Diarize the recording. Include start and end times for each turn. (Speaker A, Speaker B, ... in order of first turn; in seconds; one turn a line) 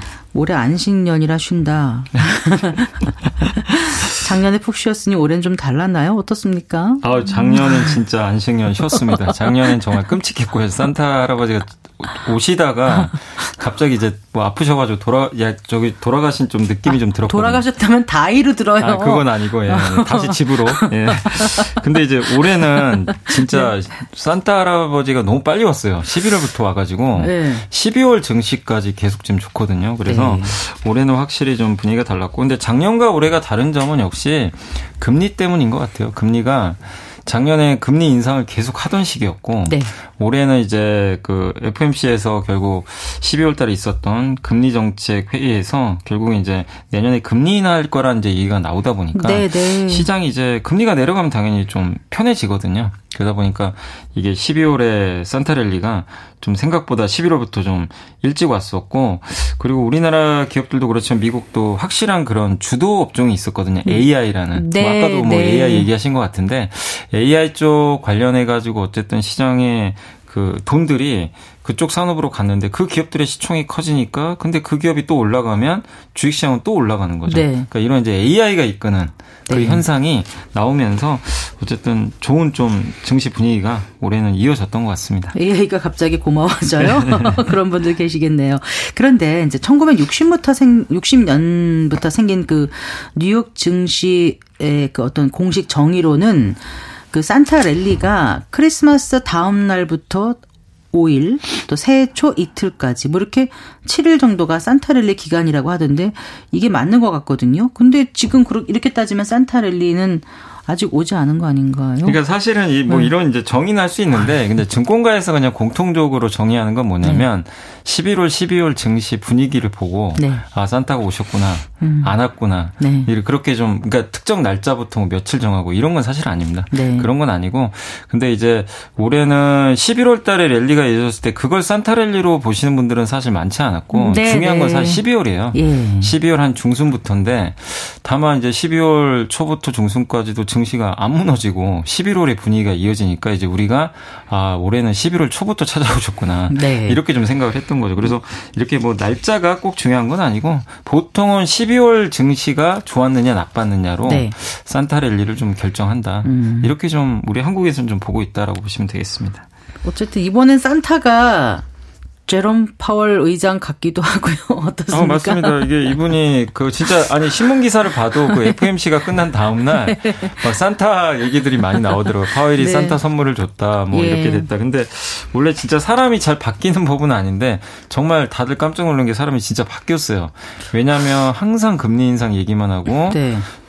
Speaker A: 0.3-8.0
Speaker B: 7.0-17.6
Speaker A: 17.3-21.8
Speaker B: 18.8-85.4
Speaker A: 22.4-23.7
Speaker A: 27.2-27.6
Speaker A: 30.1-30.6
Speaker A: 39.7-39.9
Speaker A: 49.1-50.1
Speaker A: 63.9-65.9
Speaker A: 77.3-77.7
Speaker A: 79.5-79.8
Speaker A: 85.3-96.6
Speaker B: 86.8-87.5
Speaker A: 97.1-100.4
Speaker A: 100.9-112.2
Speaker B: 112.0-159.5
Speaker A: 112.9-113.1
Speaker A: 120.2-120.4
Speaker A: 121.8-122.1
Speaker A: 122.8-123.1
Speaker A: 126.7-127.1
Speaker A: 133.9-136.1
Speaker A: 146.5-147.0
Speaker A: 154.0-154.3
Speaker A: 156.2-156.7
Speaker A: 159.8-161.7
Speaker A: 162.3-165.7
Speaker B: 164.9-183.2
Speaker A: 170.1-170.3
Speaker A: 172.6-173.0
Speaker A: 173.9-174.5
Speaker A: 183.1-183.5